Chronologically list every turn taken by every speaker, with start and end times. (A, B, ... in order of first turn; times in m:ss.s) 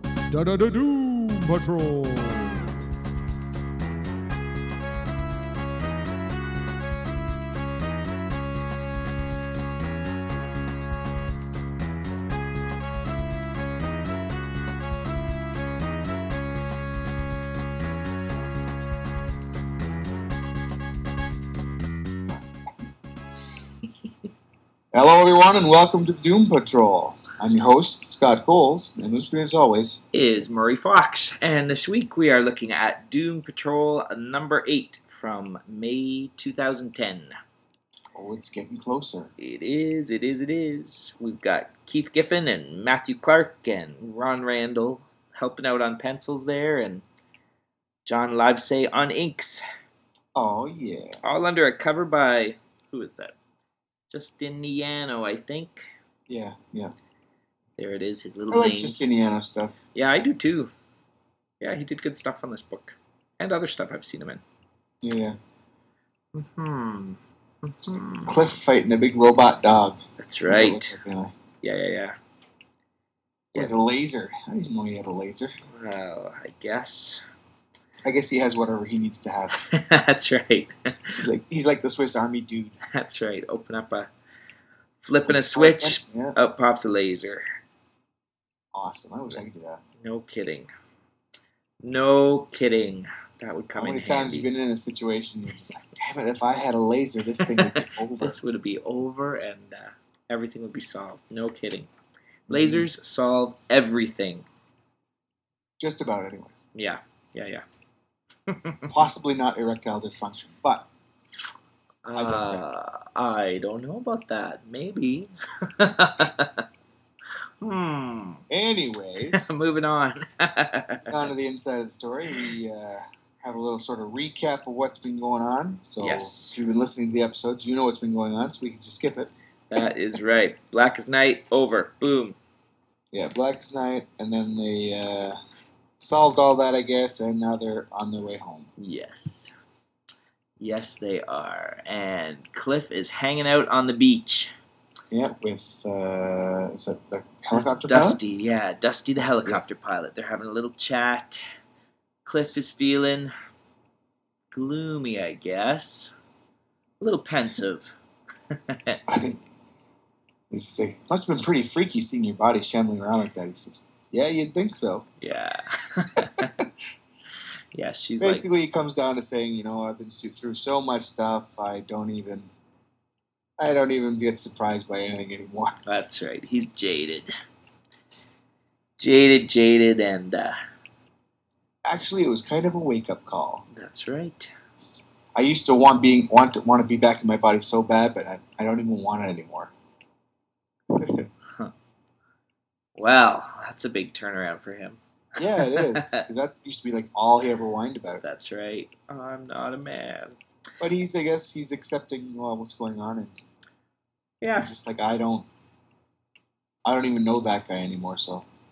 0:00.3-0:02.7 A
0:24.9-0:30.0 B
0:30.1-0:37.3 C
0:38.1-0:39.3 B
0:39.4-0:47.0 C
0:48.1-0:49.6 C
0:50.4-0:51.2 B
0:51.2-0:53.4 C
0:54.1-0:55.9 C
0:56.3-0:56.9 B
0:57.8-0:59.1 C
0:58.5-0:59.8 B
1:00.0-1:00.7 C
1:01.6-1:04.4 C
1:05.0-1:05.4 B
1:06.3-1:08.5 C
1:08.3-1:11.3 B
1:10.2-1:11.0 C
1:11.6-1:12.2 C
1:13.5-1:15.5 B
1:15.7-1:17.2 C
1:18.0-1:19.6 B
1:19.5-1:21.2 C
1:21.2-1:22.8 B
1:22.9-1:24.1 C
1:25.0-1:27.4 C
1:25.3-1:26.4 B
1:28.7-1:29.8 B
1:30.0-1:30.7 C
1:31.8-1:34.5 C
1:33.8-1:38.4 B
1:37.4-1:41.9 C
1:42.5-1:42.9 B
1:42.5-1:44.5 C
1:45.8-1:46.5 B
1:46.8-1:47.6 C
1:48.5-1:48.9 C
1:48.9-1:50.9 B
1:52.0-1:56.6 C
1:52.2-1:52.9 B
1:57.6-1:58.4 C
1:58.5-1:59.5 B
1:59.3-2:01.3 C
2:01.1-2:09.3 B
2:06.0-2:06.6 C
2:09.7-2:12.4 C
2:13.1-2:15.4 B
2:16.0-2:18.7 B
2:18.8-2:19.5 C
2:20.6-2:24.5 C
2:25.1-2:28.2 B
2:27.5-2:31.4 C
2:29.2-2:29.6 B
2:32.3-2:33.3 C
2:34.5-2:36.1 C
2:37.0-2:37.9 C
2:38.5-2:39.0 C
2:39.0-2:39.4 B
2:40.5-2:45.1 B
2:45.2-2:46.6 C
2:46.3-2:46.7 B
2:47.7-2:48.5 C
2:48.2-2:52.5 B
2:53.6-2:55.8 B
2:55.9-2:57.3 C
2:59.0-3:00.6 C
3:01.9-3:03.6 B
3:03.7-3:04.5 C
3:04.8-3:09.7 B
3:10.9-3:11.3 B
3:13.0-3:16.2 C
3:15.4-3:18.2 B
3:18.2-3:20.4 C
3:20.8-3:23.4 B
3:24.4-3:24.7 C
3:24.6-3:25.5 B
3:26.8-3:28.5 B